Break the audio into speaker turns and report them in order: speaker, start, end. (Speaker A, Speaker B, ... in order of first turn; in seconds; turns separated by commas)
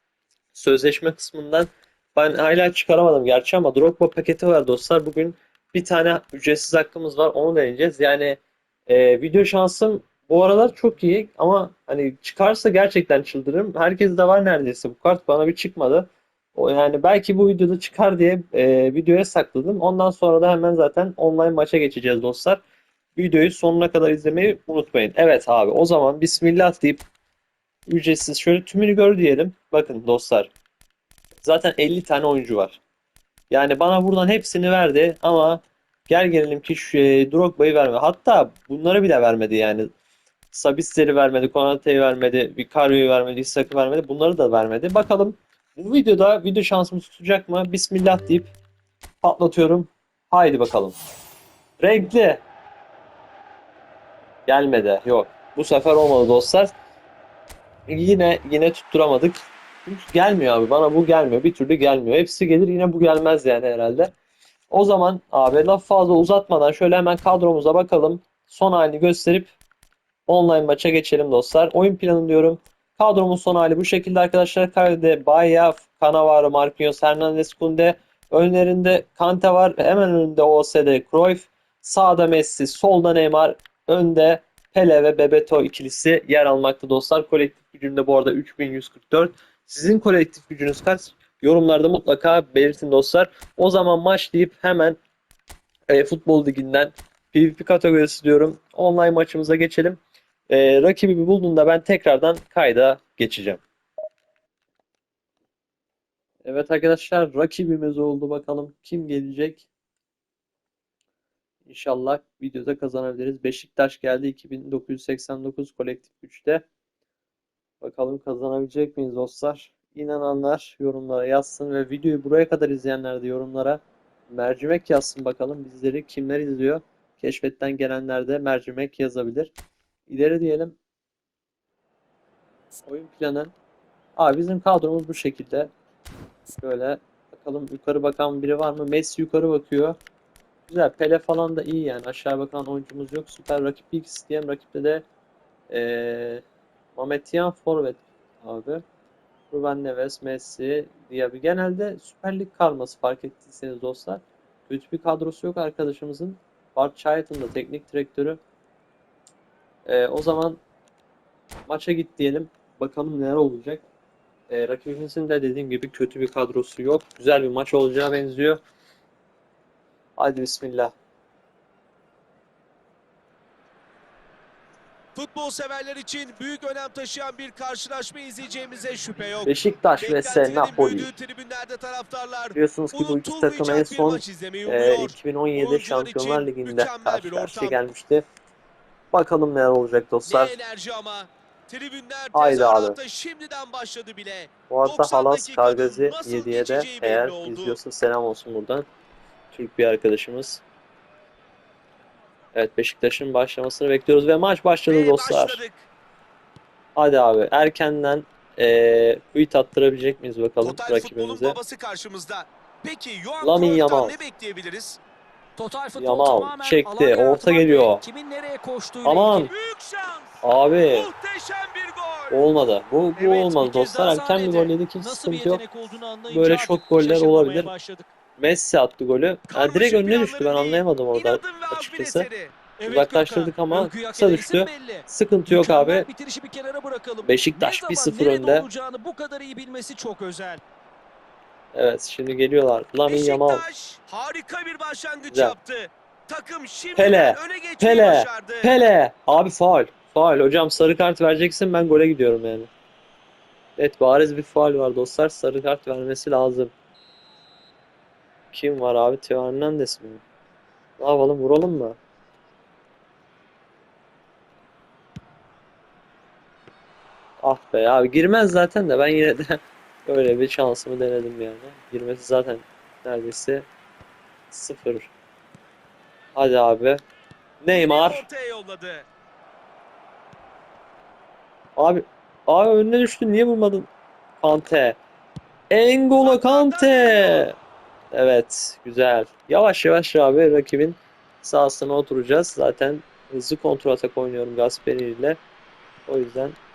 Speaker A: 0.5-22.6, Speaker A: 23.2-27.1, Speaker A: 27.9-30.5, Speaker A: 31.4-32.8, Speaker A: 33.5-39.9, Speaker A: 40.5-48.5, Speaker A: 49.2-51.0, Speaker A: 51.8-52.4, Speaker A: 54.5-56.7, Speaker A: 57.9-64.1, Speaker A: 64.7-69.5, Speaker A: 70.3-95.0, Speaker A: 95.9-103.6, Speaker A: 106.4-109.7, Speaker A: 111.7-116.6, Speaker A: 117.8-129.5, Speaker A: 130.1-130.8, Speaker A: 132.9-133.5, Speaker A: 134.2-135.7, Speaker A: 136.6-140.0, Speaker A: 140.7-145.1, Speaker A: 145.7-146.4, Speaker A: 147.0-148.8, Speaker A: 149.5-158.4, Speaker A: 159.9-160.6, Speaker A: 161.7-163.8, Speaker A: 164.5-168.6, Speaker A: 170.2-170.9, Speaker B: 175.2-187.9, Speaker A: 179.4-181.1, Speaker A: 182.6-188.3, Speaker A: 189.1-190.6, Speaker B: 190.2-197.8, Speaker A: 192.3-193.0, Speaker A: 194.7-198.9, Speaker A: 199.5-200.6, Speaker A: 202.6-205.6, Speaker B: 204.9-205.9, Speaker A: 207.0-211.6, Speaker B: 210.6-215.0, Speaker A: 213.4-214.2, Speaker C: 215.6-219.6, Speaker A: 216.0-218.0, Speaker A: 219.0-219.5, Speaker B: 219.5-220.4, Speaker A: 220.4-221.1, Speaker B: 220.9-222.5, Speaker A: 222.3-227.7, Speaker C: 223.2-228.1, Speaker A: 228.4-232.3, Speaker B: 229.5-232.7, Speaker C: 232.7-240.6, Speaker A: 232.8-236.1, Speaker A: 237.2-238.7, Speaker A: 241.7-243.6, Speaker B: 243.1-248.8, Speaker A: 245.3-245.6, Speaker A: 247.0-252.7, Speaker A: 253.8-256.7, Speaker A: 258.5-260.2, Speaker A: 261.0-262.0, Speaker A: 267.4-273.7, Speaker A: 274.5-275.1, Speaker A: 276.4-277.0, Speaker A: 277.6-278.3, Speaker B: 277.7-279.1, Speaker A: 281.8-285.0, Speaker A: 285.7-287.6, Speaker B: 286.1-287.5, Speaker A: 288.1-295.4, Speaker A: 296.1-296.6